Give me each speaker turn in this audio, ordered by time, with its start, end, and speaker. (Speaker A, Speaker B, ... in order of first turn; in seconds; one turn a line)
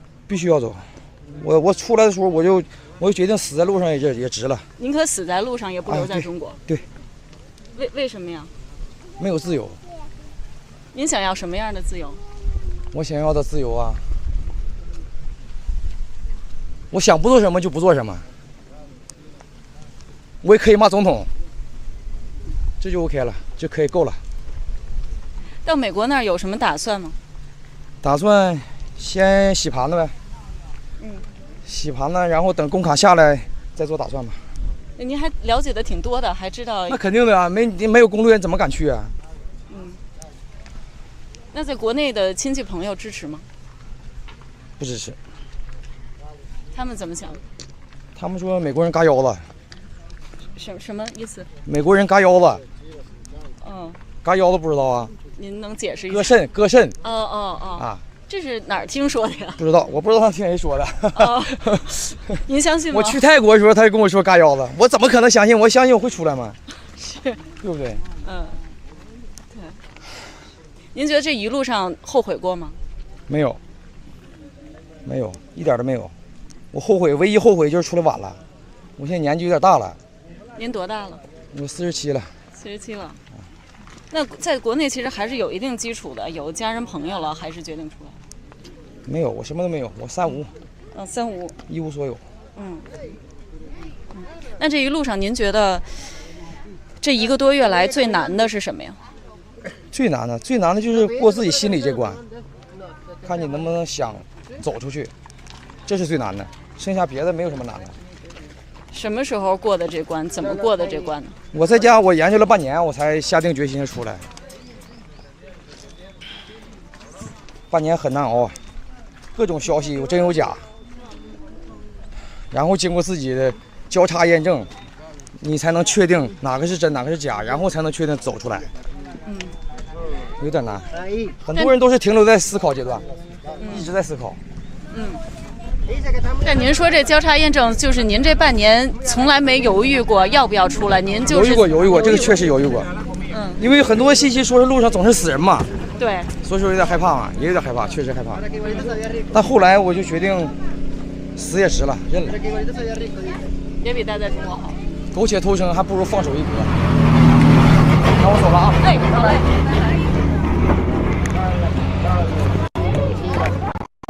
Speaker A: 0.3-4.7
Speaker B: 4.8-6.6
Speaker A: 5.9-6.9
Speaker B: 7.8-8.5
Speaker A: 9.2-9.8
Speaker B: 10.9-12.2
Speaker A: 12.9-14.0
Speaker A: 16.9-18.2
Speaker A: 20.4-21.3
Speaker A: 22.8-24.2
Speaker B: 25.6-27.2
Speaker A: 28.0-30.1
Speaker B: 31.0-31.2
Speaker A: 31.6-34.4
Speaker B: 35.0-37.0
Speaker A: 36.9-39.1
Speaker B: 39.7-40.0
Speaker B: 41.5-43.5
Speaker A: 44.8-45.2
Speaker B: 46.7-47.4
Speaker A: 48.2-49.5
Speaker B: 50.5-51.5
Speaker A: 51.6-52.6
Speaker B: 53.6-54.0
Speaker A: 54.2-55.1
Speaker B: 55.4-56.4
Speaker A: 56.1-57.0
Speaker B: 57.0-59.6
Speaker A: 57.8-58.0
Speaker A: 59.6-62.0
Speaker B: 61.1-63.2
Speaker A: 62.9-66.6
Speaker B: 66.8-67.4
Speaker A: 67.6-68.0
Speaker B: 68.2-68.6
Speaker B: 69.5-69.8
Speaker B: 70.9-72.8
Speaker A: 73.3-73.6
Speaker A: 75.0-76.1
Speaker A: 76.7-78.4
Speaker A: 79.0-80.0
Speaker B: 80.6-81.2
Speaker A: 81.5-82.3
Speaker B: 82.5-83.2
Speaker B: 84.1-88.2
Speaker A: 89.0-90.5
Speaker B: 90.9-91.6
Speaker A: 91.7-92.2
Speaker B: 92.6-92.9
Speaker B: 94.1-96.1
Speaker B: 97.0-99.0
Speaker A: 99.9-102.2
Speaker A: 103.2-105.1
Speaker A: 105.9-108.0
Speaker B: 108.9-111.4
Speaker A: 111.5-114.2
Speaker A: 117.7-118.6
Speaker A: 119.3-120.7
Speaker A: 122.5-124.7
Speaker A: 125.4-128.7
Speaker B: 129.2-129.6
Speaker A: 130.4-133.1
Speaker B: 133.6-133.9
Speaker A: 133.7-134.4
Speaker B: 134.9-135.2
Speaker B: 136.4-142.3
Speaker A: 141.3-142.9
Speaker B: 143.3-143.6
Speaker A: 143.6-145.7
Speaker B: 146.0-146.3
Speaker A: 146.4-148.5
Speaker B: 148.6-149.0
Speaker A: 149.3-150.6
Speaker A: 151.4-152.4
Speaker B: 153.8-154.8
Speaker A: 155.1-156.7
Speaker A: 158.2-158.8
Speaker B: 158.8-159.6